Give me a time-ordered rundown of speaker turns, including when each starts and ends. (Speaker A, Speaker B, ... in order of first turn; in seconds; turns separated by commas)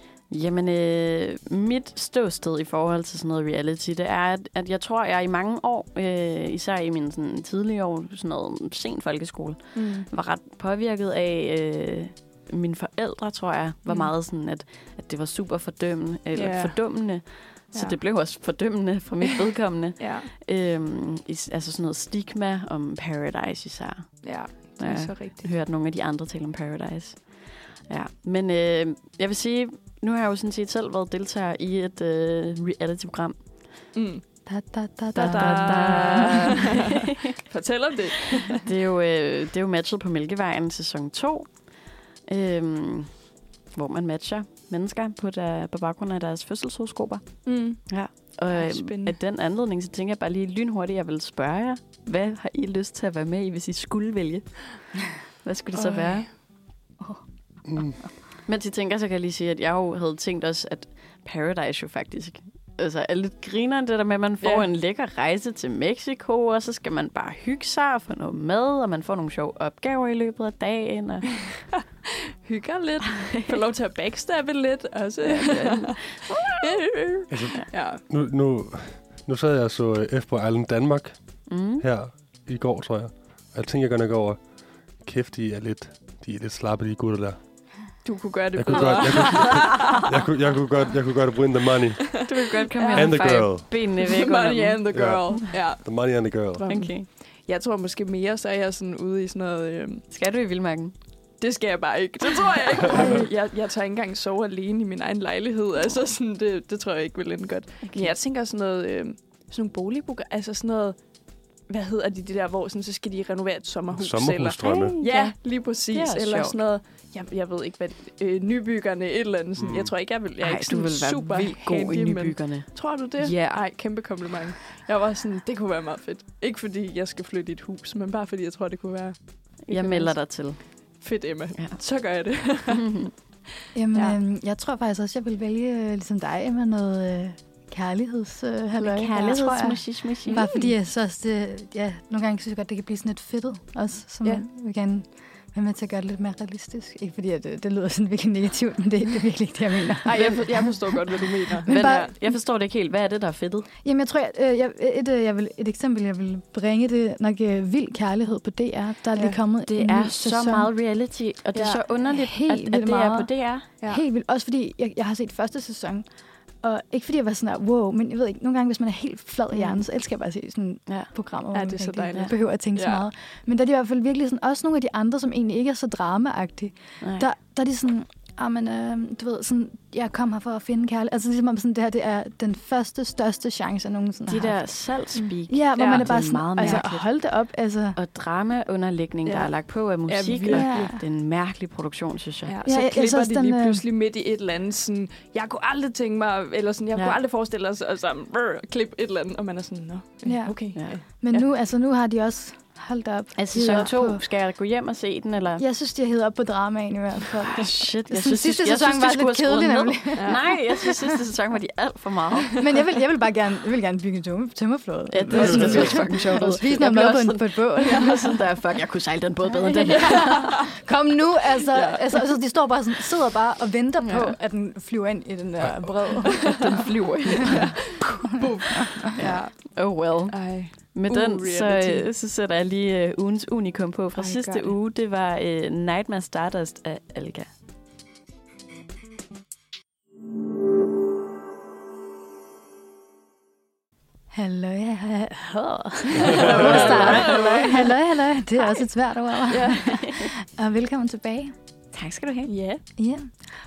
Speaker A: 0.3-33.4, Speaker B: 9.7-10.1, Speaker B: 13.8-14.1, Speaker B: 16.3-16.8, Speaker B: 20.0-20.3, Speaker B: 24.2-25.5, Speaker B: 33.9-34.2, Speaker C: 34.5-36.7, Speaker A: 35.1-36.8, Speaker B: 35.1-38.6, Speaker A: 38.6-41.7, Speaker A: 42.3-43.1, Speaker A: 43.7-54.9, Speaker B: 47.4-49.2, Speaker A: 55.4-56.3, Speaker B: 55.8-56.3, Speaker D: 57.7-58.0, Speaker A: 58.5-71.4, Speaker B: 64.4-64.7, Speaker B: 72.4-78.0, Speaker A: 75.3-76.4, Speaker D: 77.3-84.4, Speaker A: 81.5-81.8, Speaker D: 85.0-87.4, Speaker B: 88.0-90.1, Speaker D: 88.5-92.3, Speaker A: 92.2-94.8, Speaker B: 92.7-100.0, Speaker D: 92.9-93.7, Speaker D: 94.9-96.6, Speaker A: 96.7-97.0, Speaker A: 100.1-100.9, Speaker B: 101.4-111.0, Speaker A: 107.8-108.1, Speaker B: 111.7-132.9, Speaker D: 113.9-115.0, Speaker A: 114.6-116.5, Speaker D: 119.6-119.9, Speaker A: 120.4-123.6, Speaker A: 129.7-131.0, Speaker A: 132.8-133.1, Speaker C: 133.7-150.7, Speaker A: 138.7-140.5, Speaker B: 140.3-140.7, Speaker B: 150.0-152.1, Speaker C: 151.5-152.1, Speaker A: 151.7-153.7, Speaker C: 153.8-160.7, Speaker A: 159.6-163.7, Speaker B: 161.5-161.8, Speaker C: 162.0-166.1, Speaker C: 166.6-184.6, Speaker A: 169.5-169.8, Speaker B: 171.5-173.0, Speaker A: 177.0-177.3, Speaker A: 184.3-187.1, Speaker B: 185.1-186.8, Speaker C: 185.5-188.0, Speaker A: 187.9-192.6, Speaker B: 189.2-189.5, Speaker B: 190.0-190.8, Speaker C: 190.5-191.0, Speaker B: 192.5-201.4, Speaker C: 192.6-193.8, Speaker C: 200.2-204.2, Speaker A: 200.7-201.0, Speaker A: 203.3-205.6, Speaker C: 205.6-210.6, Speaker A: 207.5-212.5, Speaker C: 212.6-218.4, Speaker A: 215.1-220.6, Speaker B: 215.3-215.9, Speaker D: 215.4-215.9, Speaker C: 219.5-226.8, Speaker B: 219.9-220.5, Speaker B: 221.7-222.0, Speaker A: 224.0-224.3, Speaker A: 226.3-237.5, Speaker B: 227.5-227.8, Speaker C: 228.6-229.1, Speaker B: 229.2-232.1, Speaker B: 234.2-234.7, Speaker C: 244.3-251.5, Speaker B: 246.2-247.9, Speaker A: 246.4-247.5, Speaker B: 248.5-248.9, Speaker B: 249.5-250.0, Speaker A: 251.9-252.5, Speaker B: 252.5-252.8, Speaker C: 253.0-253.3